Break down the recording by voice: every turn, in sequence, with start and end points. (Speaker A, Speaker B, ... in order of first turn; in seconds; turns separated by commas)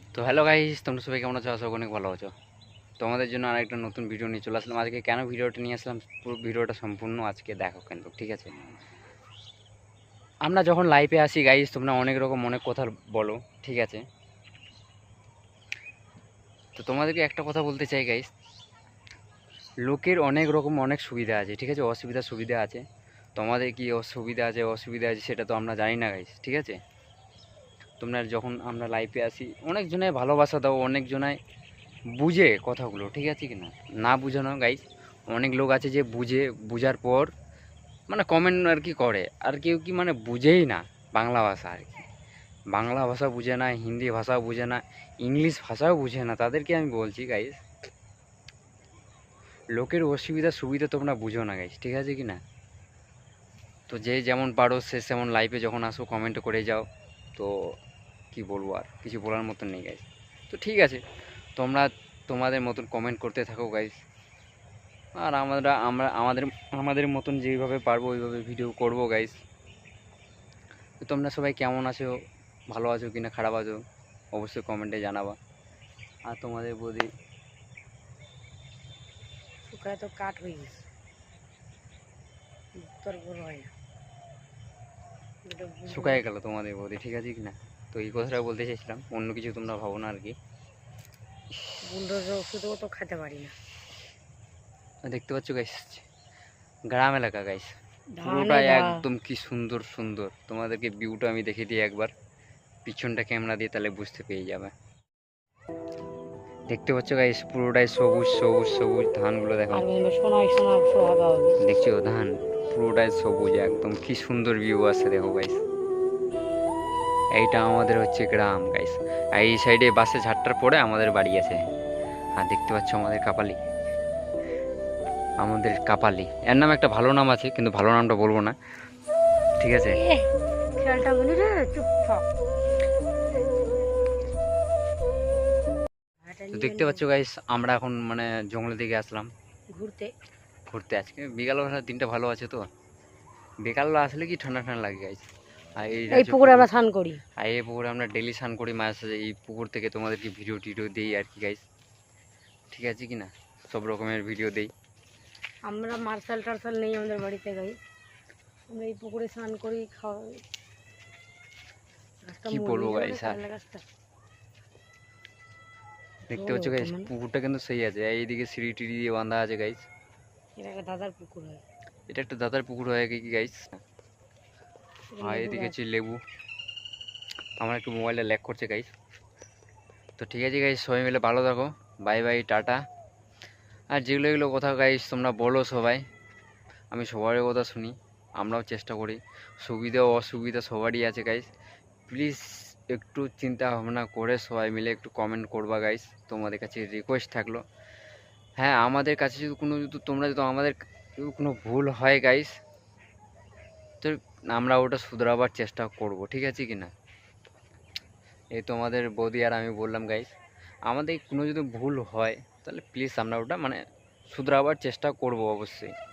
Speaker A: 0.1-2.3, Speaker A: 3.0-8.5, Speaker A: 10.4-14.0, Speaker A: 16.8-18.3, Speaker A: 19.8-22.8, Speaker A: 23.4-26.8, Speaker A: 28.0-31.4, Speaker A: 32.1-37.3, Speaker A: 38.1-42.1, Speaker A: 42.7-47.6, Speaker A: 49.7-52.4, Speaker A: 53.9-57.8, Speaker A: 58.3-61.0, Speaker A: 61.5-64.0, Speaker A: 65.2-69.4, Speaker A: 71.0-72.2, Speaker A: 72.7-73.8, Speaker A: 74.3-75.4, Speaker A: 76.3-77.1, Speaker B: 79.6-80.8, Speaker B: 82.8-83.7, Speaker B: 85.5-86.2, Speaker A: 85.9-90.4, Speaker B: 91.8-93.5, Speaker A: 95.1-96.0, Speaker A: 96.9-102.1, Speaker B: 98.2-99.0, Speaker A: 102.8-104.7, Speaker A: 106.7-109.8, Speaker B: 109.7-111.6, Speaker A: 111.6-115.6, Speaker A: 117.3-121.6, Speaker A: 122.4-123.6, Speaker A: 125.4-128.6, Speaker A: 129.6-130.0, Speaker B: 129.9-132.3, Speaker B: 136.2-137.0, Speaker A: 136.5-139.3, Speaker B: 139.7-140.1, Speaker A: 140.7-142.7, Speaker A: 143.6-146.7, Speaker B: 146.1-147.2, Speaker A: 147.4-151.6, Speaker A: 152.7-154.7, Speaker B: 155.7-157.8, Speaker B: 158.7-160.4, Speaker B: 162.3-163.8, Speaker A: 162.5-163.4, Speaker B: 166.3-167.1, Speaker A: 166.3-169.9, Speaker B: 170.6-171.6, Speaker A: 172.1-173.8, Speaker B: 175.1-175.8, Speaker A: 175.2-176.2, Speaker A: 177.6-178.9, Speaker A: 180.2-182.8, Speaker A: 183.9-186.1, Speaker A: 186.9-191.5, Speaker A: 192.1-197.6, Speaker A: 198.6-202.6, Speaker A: 204.0-206.9, Speaker A: 208.5-210.3, Speaker A: 210.9-215.9